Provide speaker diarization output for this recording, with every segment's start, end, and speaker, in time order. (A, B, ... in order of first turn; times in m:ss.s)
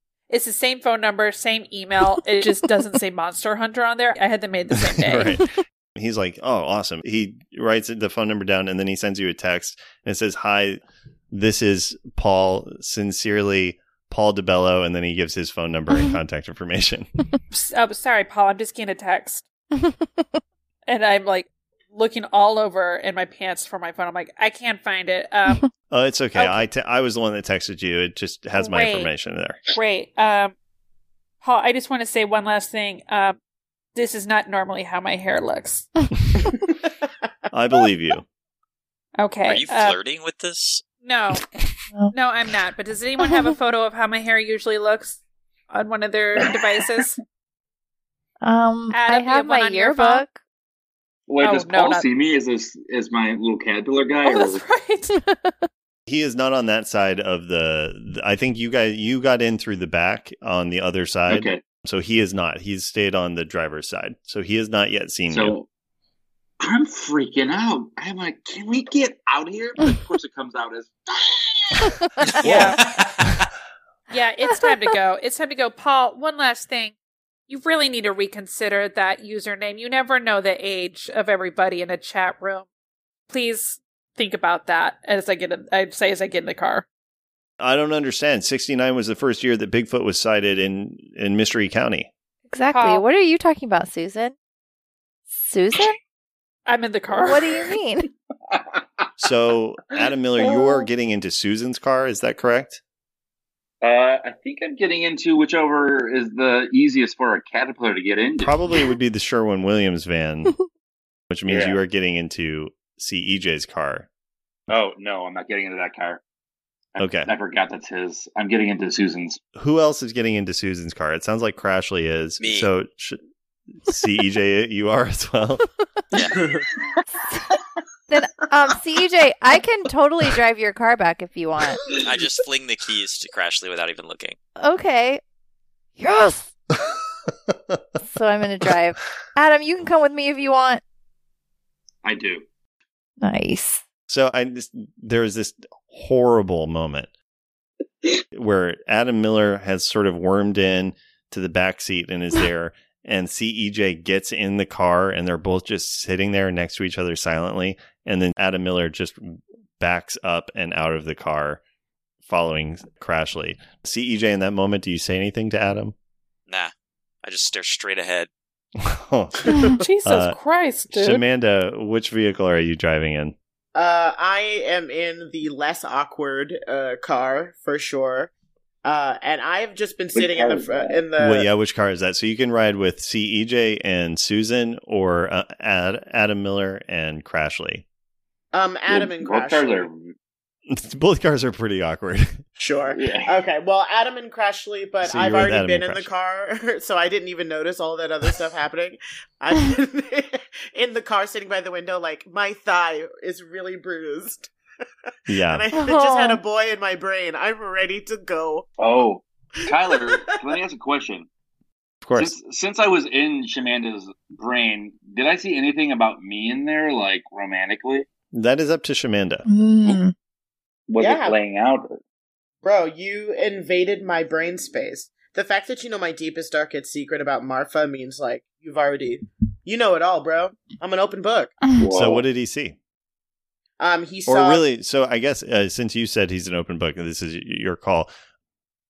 0:00.3-0:05.4 A
0:04.8-0:17.1 B
0:17.5-0:19.4 A
0:19.8-0:20.3 C
0:20.9-0:25.7 A
0:25.9-0:29.6 B
0:28.6-0:29.1 A
0:29.7-0:30.5 A
0:31.4-0:33.4 A
0:33.9-0:36.0 A
0:37.5-0:38.2 B
0:39.2-0:40.0 A
0:39.4-0:40.8 D
0:41.0-0:41.4 A
0:42.1-0:47.2 A
0:43.2-0:43.5 C
0:48.4-0:50.4 C
0:48.9-0:50.2 A
0:51.3-0:54.6 E
0:51.4-0:52.0 A
0:54.2-0:55.2 A
0:55.1-0:55.7 C
0:56.1-1:05.6 B
1:01.3-1:01.6 E
1:05.3-1:05.7 E
1:06.6-1:12.4 E
1:12.4-1:13.3 D
1:12.4-1:12.8 A
1:12.4-1:12.8 B
1:14.1-1:17.0 A
1:14.4-1:14.9 C
1:17.5-1:22.7 A
1:23.3-1:26.9 A
1:27.6-1:32.1 B
1:32.5-1:34.3 C
1:32.7-1:33.0 A
1:35.3-1:36.0 C
1:36.7-1:37.6 A
1:37.1-1:38.1 C
1:38.5-1:39.1 E
1:39.2-1:42.8 B
1:40.0-1:40.6 E
1:43.8-1:48.6 E
1:48.4-1:50.6 B
1:51.3-1:54.1 B
1:51.5-1:51.8 E
1:54.7-1:56.2 E
1:57.0-1:59.4 E
1:57.0-1:57.3 B
1:59.6-2:03.2 B
2:02.4-2:02.7 D
2:03.9-2:05.7 B
2:06.1-2:06.6 D
2:08.1-2:11.8 C
2:12.0-2:14.4 D
2:14.6-2:15.2 C
2:16.0-2:16.5 C
2:18.0-2:20.8 C
2:22.0-2:22.4 E
2:23.2-2:23.8 C
2:24.1-2:27.1 B
2:28.3-2:41.6 B
2:42.2-2:46.0 B
2:47.2-2:48.3 D
2:48.8-2:49.5 B
2:49.5-2:49.7 F
2:49.8-2:51.2 A
2:50.0-2:50.4 B
2:50.9-2:53.3 B
2:53.7-2:58.3 F
2:58.8-3:01.5 F
3:00.1-3:01.0 E
3:01.2-3:07.8 B
3:08.5-3:09.9 F
3:08.9-3:10.1 E
3:10.7-3:12.4 B
3:12.6-3:24.5 F
3:12.9-3:13.3 E
3:15.0-3:16.1 B
3:25.1-3:28.7 F
3:25.3-3:25.6 B
3:25.8-3:26.4 C
3:28.8-3:31.3 E
3:29.7-3:30.2 F
3:32.0-3:32.3 B
3:32.2-3:38.0 E
3:38.3-3:39.5 B
3:39.5-3:40.1 C
3:40.9-3:42.0 E
3:41.0-3:41.4 F
3:42.6-3:51.6 F
3:51.7-3:52.2 E
3:51.9-3:52.8 B
3:53.8-3:54.6 F
3:54.3-3:58.1 B